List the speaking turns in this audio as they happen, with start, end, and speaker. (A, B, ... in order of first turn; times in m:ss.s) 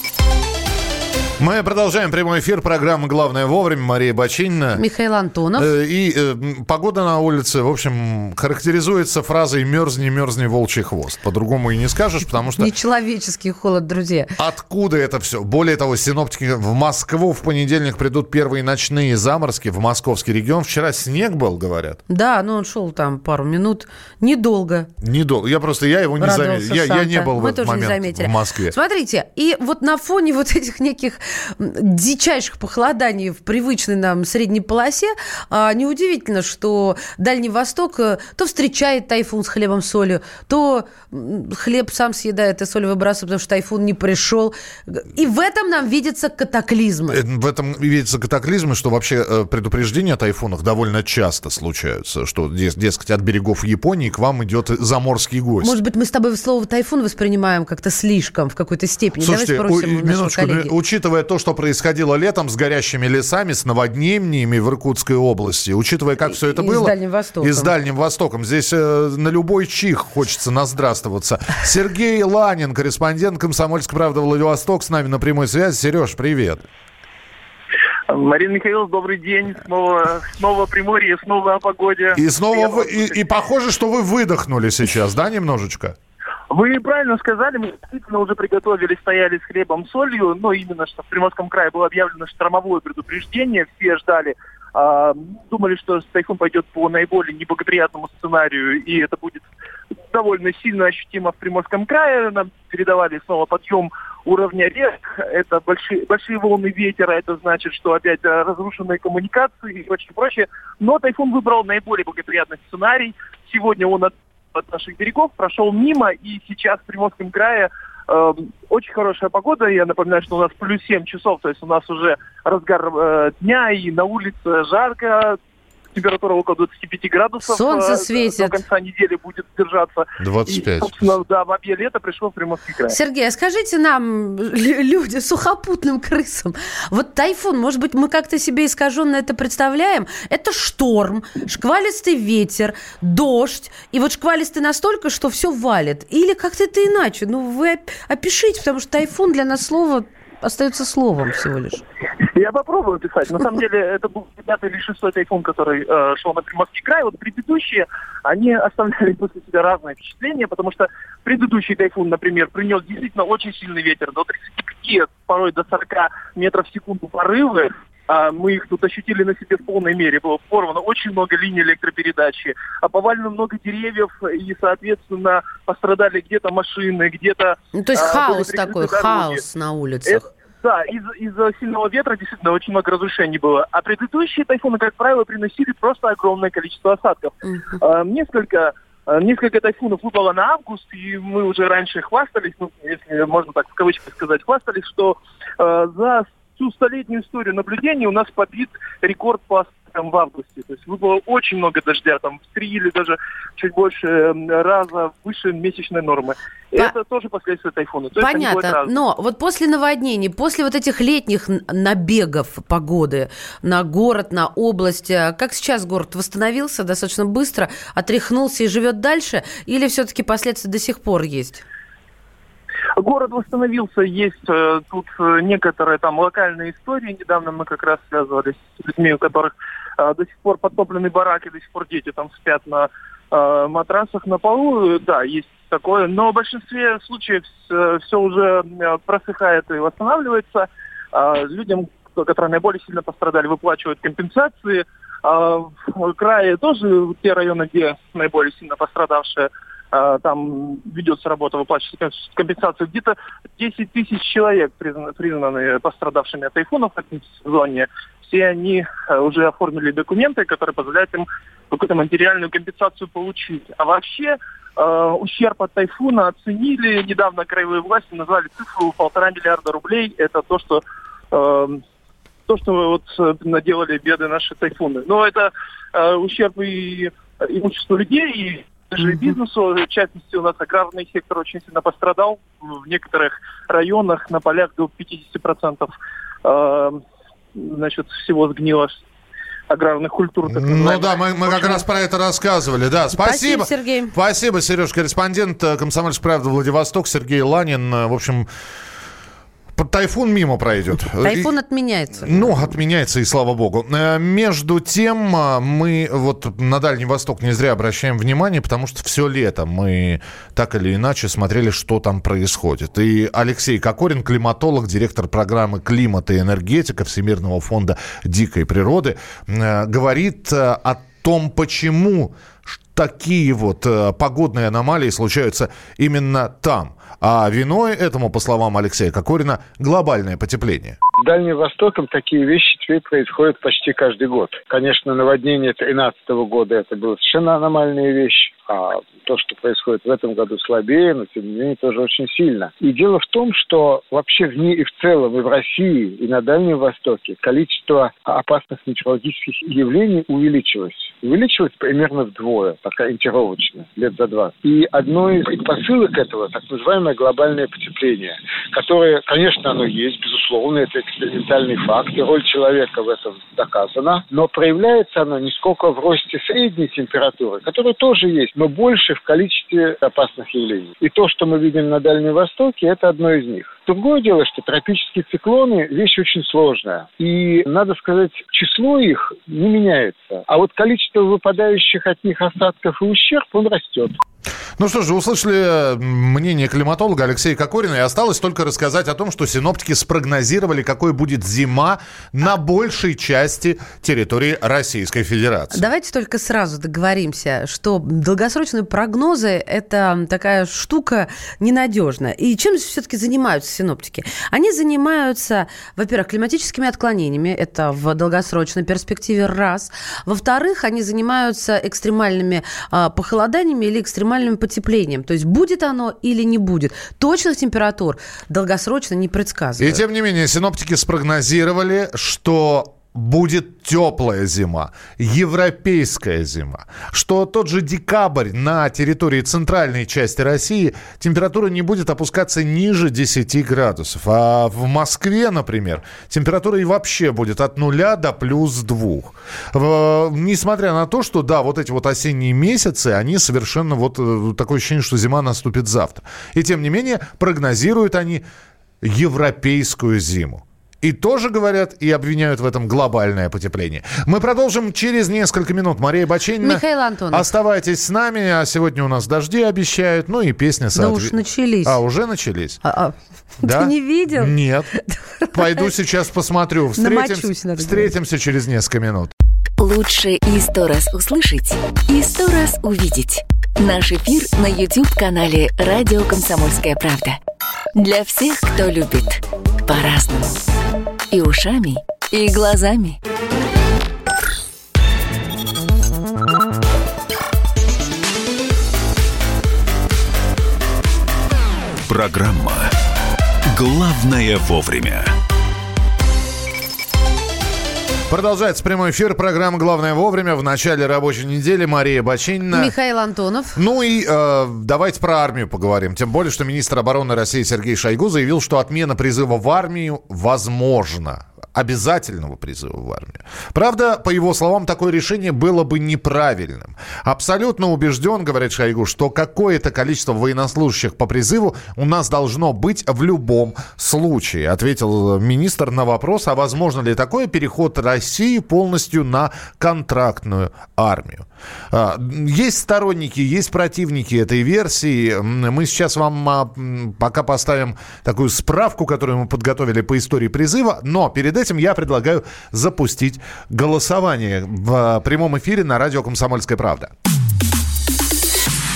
0:01.4-0:04.8 A
0:04.8-0:05.7 B
0:05.6-0:12.7 A
0:12.6-0:14.3 B
0:14.4-0:22.0 A
0:22.1-0:24.9 B
0:25.0-0:28.8 A
0:26.2-0:47.2 B
0:47.1-0:55.8 A
0:55.6-1:00.7 B
0:59.2-1:16.6 A
1:06.3-1:07.7 B
1:18.1-1:23.1 C
1:22.2-1:26.0 A
1:26.5-1:39.4 C
1:40.1-2:05.4 C
2:06.0-2:13.0 C
2:07.4-2:08.6 B
2:10.2-2:11.1 A
2:12.9-2:31.8 B
2:32.3-2:59.4 C
2:57.7-3:00.3 B
3:00.0-3:28.9 C
3:07.4-3:07.8 B
3:28.2-3:41.6 B
3:43.0-4:30.8 C
4:31.3-4:31.8 C
4:32.5-4:47.0 C
4:47.6-4:49.0 C
4:49.7-4:51.8 C
4:50.5-4:58.5 A
4:53.1-4:54.1 B
4:59.8-5:01.5 A
5:01.2-5:02.5 B
5:02.2-5:31.0 A
5:31.2-6:24.2 D
6:24.8-6:35.8 A
6:35.7-7:00.0 B
6:59.8-7:28.4 A
7:29.0-7:42.8 A
7:36.6-7:37.5 B
7:41.0-7:42.0 B
7:42.8-7:45.9 B
7:43.6-7:44.9 A
7:45.5-7:49.3 A
7:47.0-7:48.1 B
7:49.8-7:57.4 E
7:58.0-8:00.5 E
8:01.3-8:03.2 E
8:12.1-8:12.9 F
8:13.7-8:15.3 F
8:18.3-8:22.9 A
8:22.7-8:23.8 B
8:23.8-9:07.1 A